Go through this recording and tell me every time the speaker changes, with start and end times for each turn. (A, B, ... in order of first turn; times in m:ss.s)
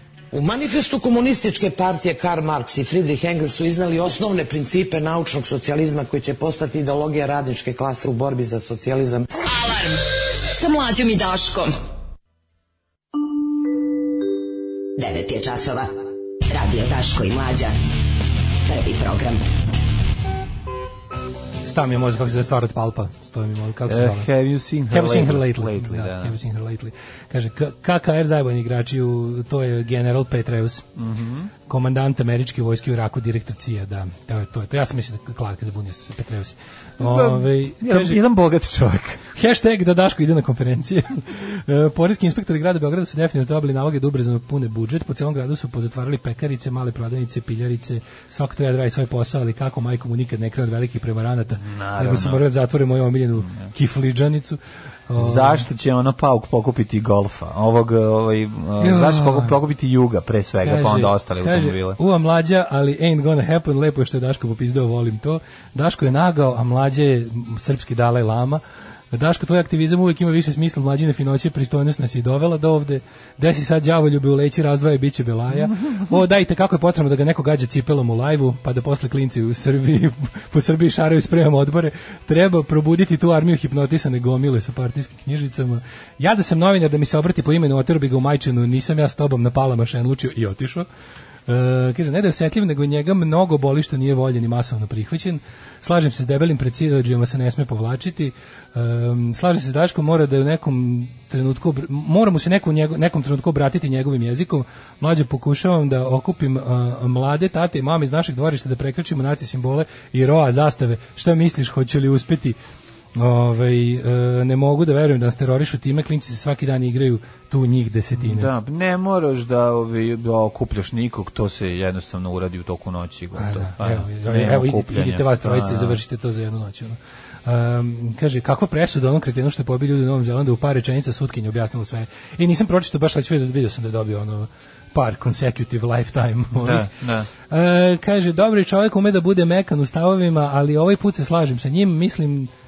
0:00.3-0:09.3 A
0:09.4-0:11.8 B
0:15.0-0:15.9 B
0:16.5-0:17.8 B
0:18.7-0:19.4 B
0:21.6-0:24.3 C
0:23.9-0:26.4 D
0:24.9-0:30.8 C
0:31.0-0:31.5 D
0:31.7-0:38.2 C
0:37.0-0:39.2 D
0:39.3-0:55.6 C
0:51.6-0:52.4 D
0:55.2-1:02.0 D
0:58.8-0:59.6 C
1:00.6-1:08.6 C
1:09.1-1:30.9 C
1:31.5-1:52.6 C
1:53.2-1:58.5 C
1:58.2-2:06.0 D
2:03.4-2:16.9 C
2:16.6-2:17.3 D
2:17.5-2:22.5 C